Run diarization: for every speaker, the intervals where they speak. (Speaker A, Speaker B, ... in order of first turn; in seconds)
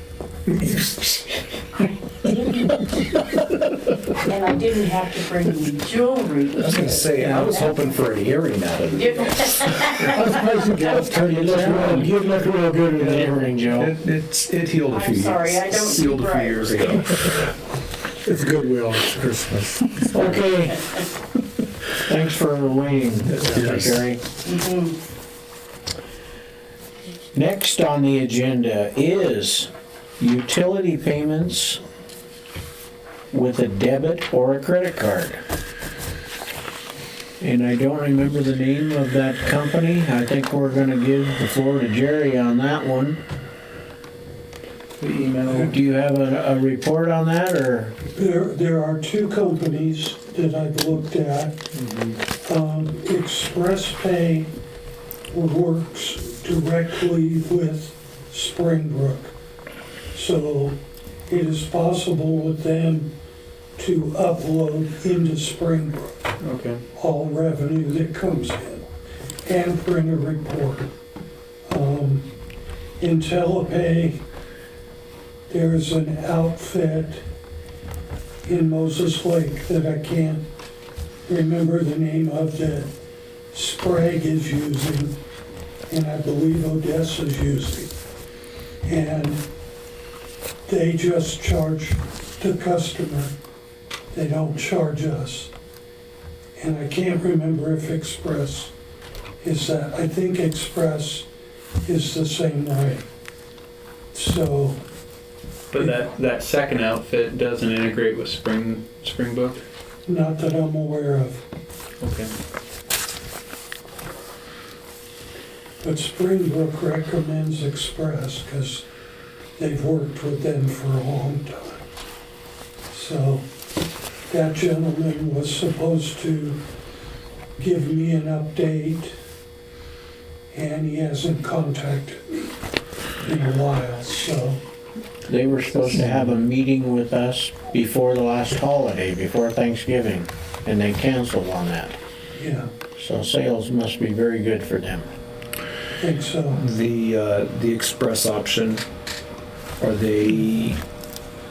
Speaker A: 0.5-1.4, 6.6-9.7, 12.9-17.4, 23.4-23.9, 146.5-148.8, 149.8-150.8
Speaker B: 2.2-2.6, 4.2-8.0, 8.9-11.0, 14.8-17.1, 24.4-25.0
Speaker C: 10.0-12.2, 18.2-20.4, 23.4-23.9
Speaker D: 11.2-13.9, 20.1-20.8, 22.0-24.2, 27.3-29.7, 30.2-31.8, 33.3-35.4, 37.4-43.2, 45.5-47.9, 135.3-141.9, 143.0-145.1
Speaker E: 45.0-45.7, 51.8-52.2, 66.4-66.8, 105.7-109.6, 112.0-112.3
Speaker F: 48.1-51.6, 52.4-54.5, 55.3-59.3, 60.1-63.1, 63.8-66.3, 67.0-68.9, 69.4-70.9, 71.7-72.3, 73.0-74.2, 75.5-77.2, 78.5-80.5, 81.3-82.9, 83.5-85.2, 85.9-87.9, 88.9-89.4, 90.7-93.3, 94.1-95.5, 96.6-98.7, 99.4-101.3, 101.8-103.0, 104.1-104.8, 110.1-111.4, 115.8-118.9, 119.6-121.8, 122.9-123.5, 124.3-126.6, 127.6-129.1, 130.5-132.6, 133.2-134.6, 142.4-142.7, 146.0-146.6